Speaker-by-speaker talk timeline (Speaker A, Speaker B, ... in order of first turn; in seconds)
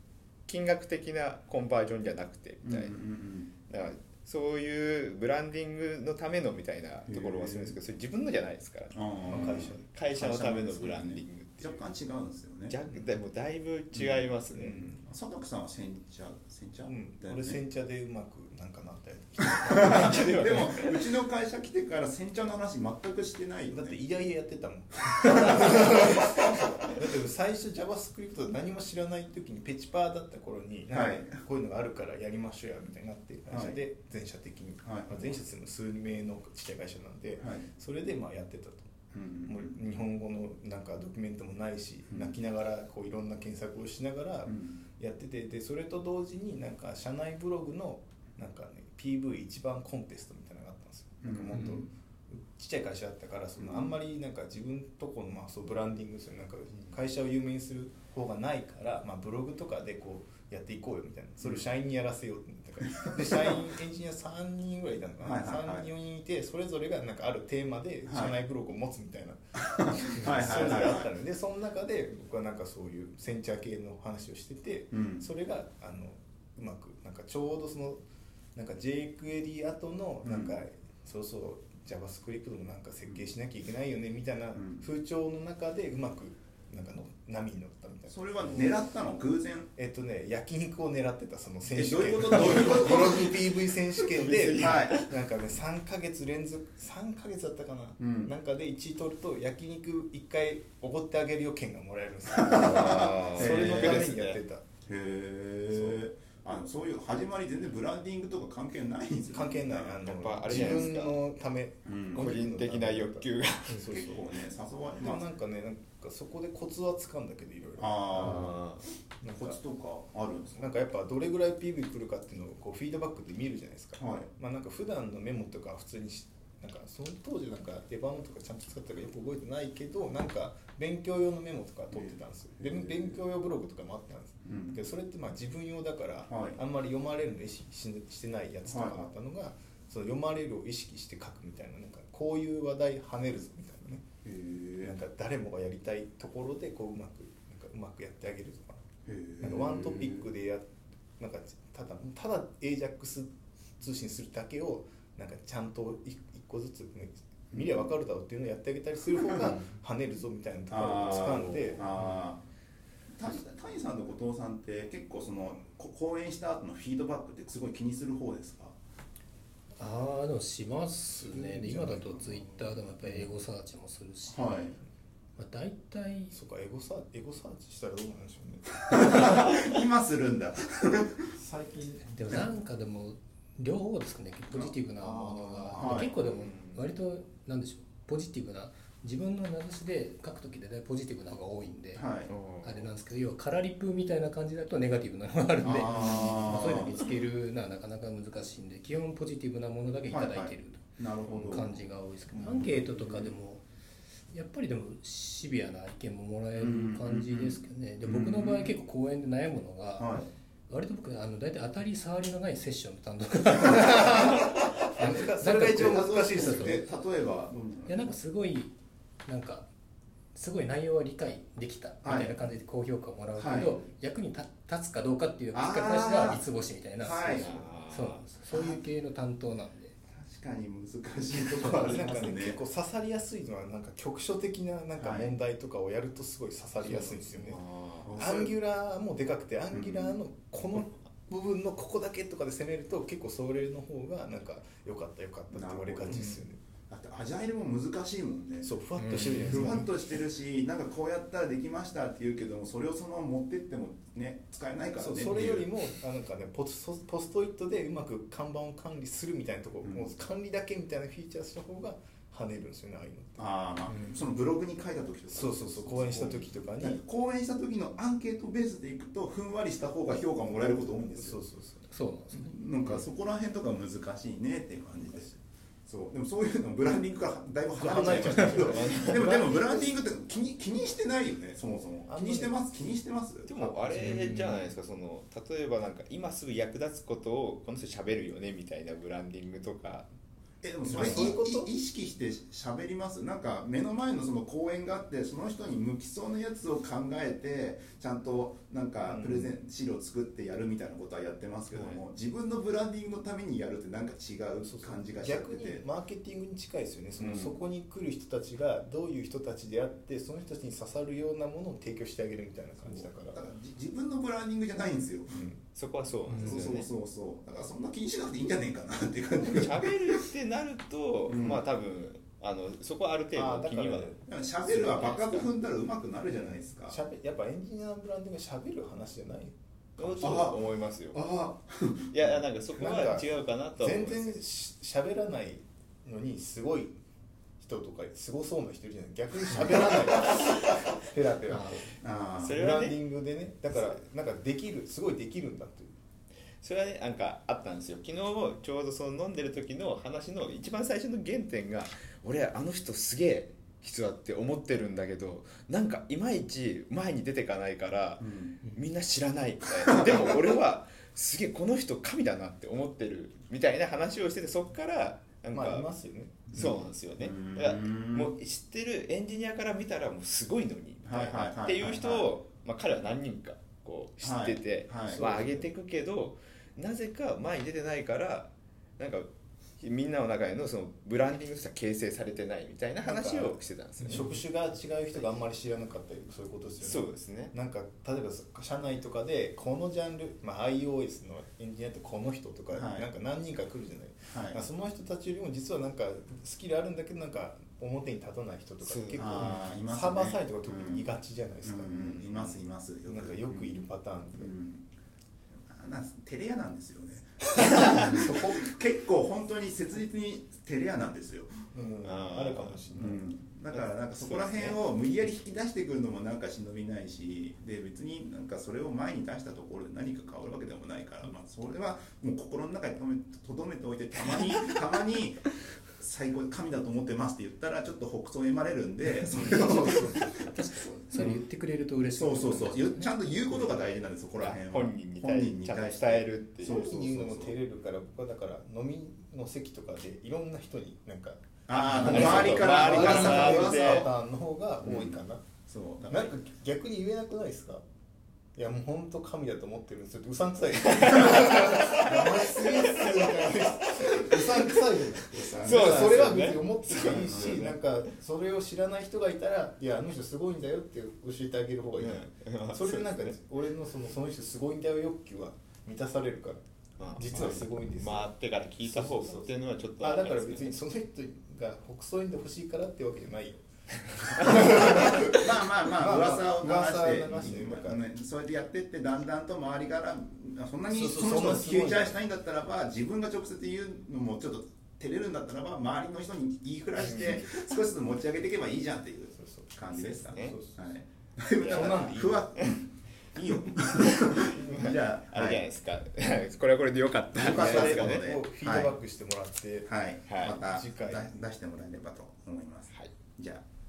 Speaker A: 0.5-3.0, 3.7-11.8, 12.7-14.9, 19.7-21.1, 92.5-92.9, 94.0-95.1, 102.5-104.4, 110.0-111.2, 112.1-113.9, 118.2-118.8, 186.0-186.9, 192.3-192.9, 227.3-228.3, 236.8-238.1, 278.0-279.4, 283.4-290.1, 291.0-291.3, 301.7-302.0, 315.7-316.9, 319.5-324.1, 324.6-325.5, 330.0-331.2, 332.1-334.4, 342.4-343.0, 343.7-344.0, 346.6-365.9, 366.5-379.3, 379.8-384.3, 386.8-387.5, 398.8-399.5, 412.0-412.8, 413.7-414.8, 434.4-436.8, 441.8-444.1, 450.9-453.8, 455.6-457.8, 462.0-463.4, 467.0-470.7, 487.0-487.5, 489.9-490.6, 491.6-492.8, 494.2-498.3, 500.3-500.6
Speaker B: 2.6-3.5, 7.1-7.8, 8.9-13.0, 13.9-17.6, 19.6-24.0, 25.3-26.3, 30.9-31.4, 33.5-33.8, 34.8-35.4, 37.4-37.6, 39.1-39.8, 42.1-42.4, 44.5-44.8, 51.2-51.9, 53.6-53.9, 62.9-63.6, 65.2-65.9, 68.1-68.3, 69.7-71.1, 74.9-75.2, 80.2-80.5, 84.5-84.8, 88.1-89.7, 91.7-93.4, 94.6-95.0, 98.0-98.3, 102.3-104.1, 104.8-111.0, 111.8-112.3, 113.8-115.2, 117.8-118.6, 119.3-120.7, 124.0-124.3, 131.9-133.2, 134.4-134.8, 136.3-136.6, 138.7-139.1, 144.2-144.9, 149.1-150.3, 157.5-157.8, 159.2-159.6, 160.7-162.4, 163.1-168.8, 174.3-174.7, 178.9-181.3, 184.5-184.7, 185.7-186.1, 191.9-192.3, 195.6-196.9, 200.1-201.8, 202.5-203.3, 206.6-208.8, 210.0-210.3, 215.8-218.2, 222.0-222.4, 223.3-223.8, 225.5-226.4, 227.0-227.6, 228.5-228.8, 230.1-232.6, 234.9-235.3, 238.0-238.5, 239.7-240.2, 245.5-248.7, 249.3-255.7, 259.8-260.1, 263.4-271.4, 272.3-284.7, 290.6-305.8, 307.2-307.5, 312.8-315.4, 316.3-320.2, 321.3-321.6, 324.2-327.0, 330.2-332.4, 342.0-342.6, 358.2-358.6, 366.5-368.3, 371.0-372.3, 374.2-375.2, 392.7-393.1, 394.3-394.6, 399.1-401.0, 401.6-403.8, 404.4-404.9, 405.7-411.5, 412.9-430.4, 432.1-437.5, 441.7-444.1, 444.8-446.3, 455.2-456.4, 457.1-457.6, 474.4-495.7, 497.4-498.9, 499.9-503.6
Speaker C: 9.3-10.0, 14.5-14.9, 16.9-20.6, 23.7-38.9, 39.5-69.4, 69.9-78.0, 78.5-88.8, 89.8-104.6, 105.7-106.0, 109.3-114.2, 114.9-118.5, 119.2-119.6, 120.6-144.0, 144.8-148.8, 149.4-161.9, 171.1-173.3, 176.3-179.2, 181.4-182.1, 185.0-185.9, 202.3-202.9, 214.9-216.8, 231.6-237.6, 238.1-246.6, 248.6-249.9, 254.9-263.4, 265.3-267.0, 270.5-271.9, 277.7-279.9, 282.1-282.6, 290.9-291.7, 299.0-299.5, 304.6-313.4, 315.3-315.6, 323.3-324.2, 326.9-330.5, 332.7-337.0, 337.6-341.9, 342.5-345.9, 365.5-366.4, 375.1-375.7, 383.0-404.5, 407.5-408.7, 411.7-413.2, 429.3-430.6, 436.6-445.5, 446.0-447.8, 448.6-466.6, 467.1-478.0, 480.9-482.2, 487.0-487.5, 489.4-489.8, 490.3-490.9, 491.6-492.5, 494.5-494.9, 497.4-499.9, 500.6-501.3
Speaker D: 169.8-174.7, 175.4-176.3, 182.0-192.1, 192.6-203.6, 204.3-210.1, 210.7-216.8, 217.8-218.7, 219.2-219.7, 220.3-229.9, 249.0-249.8, 271.9-272.5, 341.5-341.8, 430.4-433.1